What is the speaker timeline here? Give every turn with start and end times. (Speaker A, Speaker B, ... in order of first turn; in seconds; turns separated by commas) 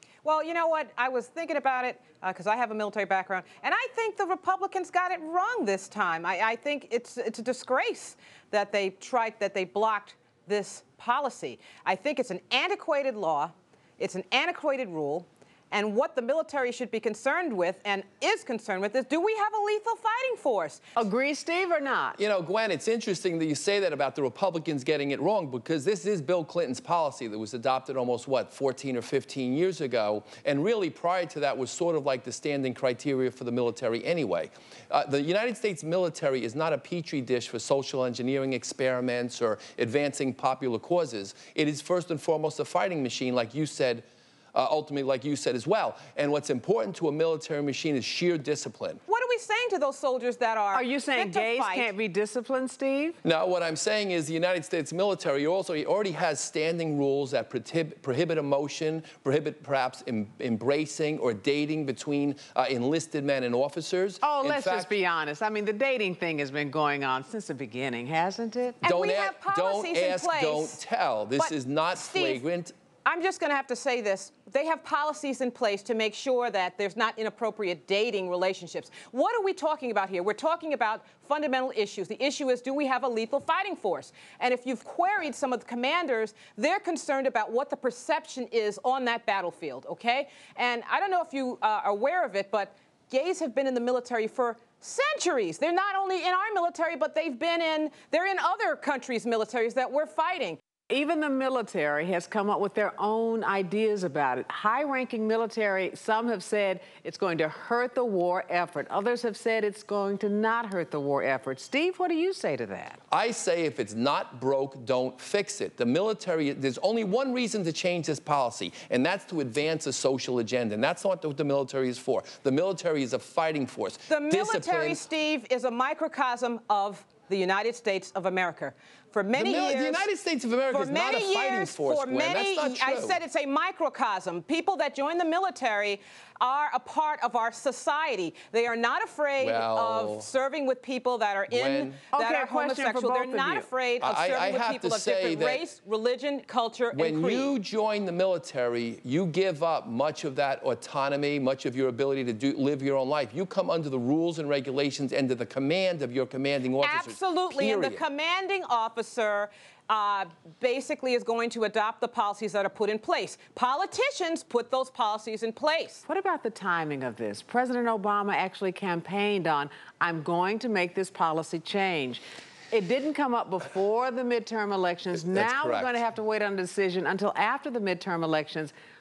Speaker A: 0.2-20.8, Speaker B: 20.9-22.2, Speaker C: 22.2-49.0, Speaker A: 49.1-51.9, Speaker B: 50.7-53.2, Speaker C: 53.2-64.9, Speaker B: 64.2-68.8, Speaker C: 68.8-72.7, Speaker A: 68.8-70.8, Speaker A: 71.4-72.4, Speaker A: 73.0-100.6, Speaker B: 100.9-113.0, Speaker C: 113.1-125.0, Speaker A: 124.1-130.1, Speaker C: 129.3-133.2, Speaker A: 130.7-147.5, Speaker C: 139.4-140.3, Speaker C: 141.5-142.0, Speaker B: 142.1-143.7, Speaker C: 144.0-145.6, Speaker C: 146.9-158.0, Speaker A: 156.8-166.0, Speaker B: 166.1-178.7, Speaker C: 175.2-176.0